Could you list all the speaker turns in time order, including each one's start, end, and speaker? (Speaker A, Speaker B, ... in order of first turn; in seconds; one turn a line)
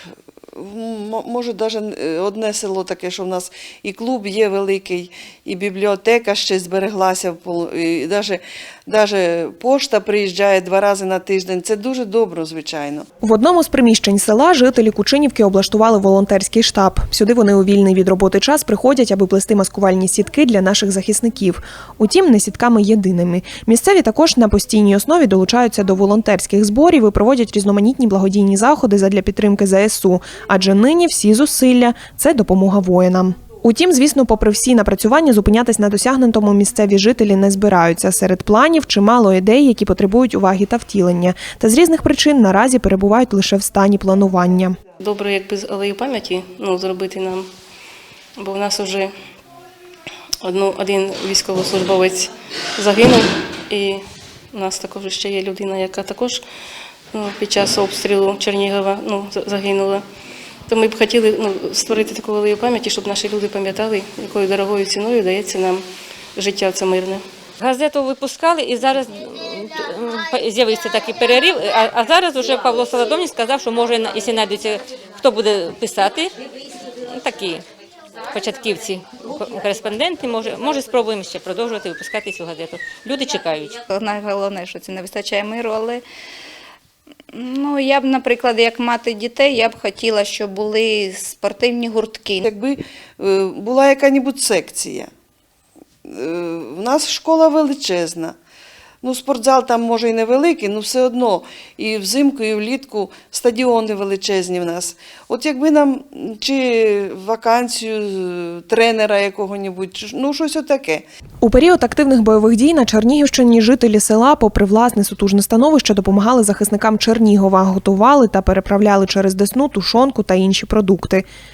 Speaker A: 0.6-13.1
Speaker B: 13.2-44.8
Speaker C: 45.0-47.5
Speaker C: 48.4-49.1
Speaker C: 50.4-54.0
Speaker C: 54.5-56.4
Speaker C: 57.1-60.0
Speaker C: 60.7-65.8
Speaker C: 66.3-67.2
Speaker D: 67.6-76.3
Speaker D: 77.0-77.6
Speaker D: 78.3-83.8
Speaker E: 83.9-86.0
Speaker E: 87.3-92.4
Speaker A: 92.4-95.1
Speaker A: 96.1-98.3
Speaker A: 99.0-111.0
Speaker B: 111.4-121.2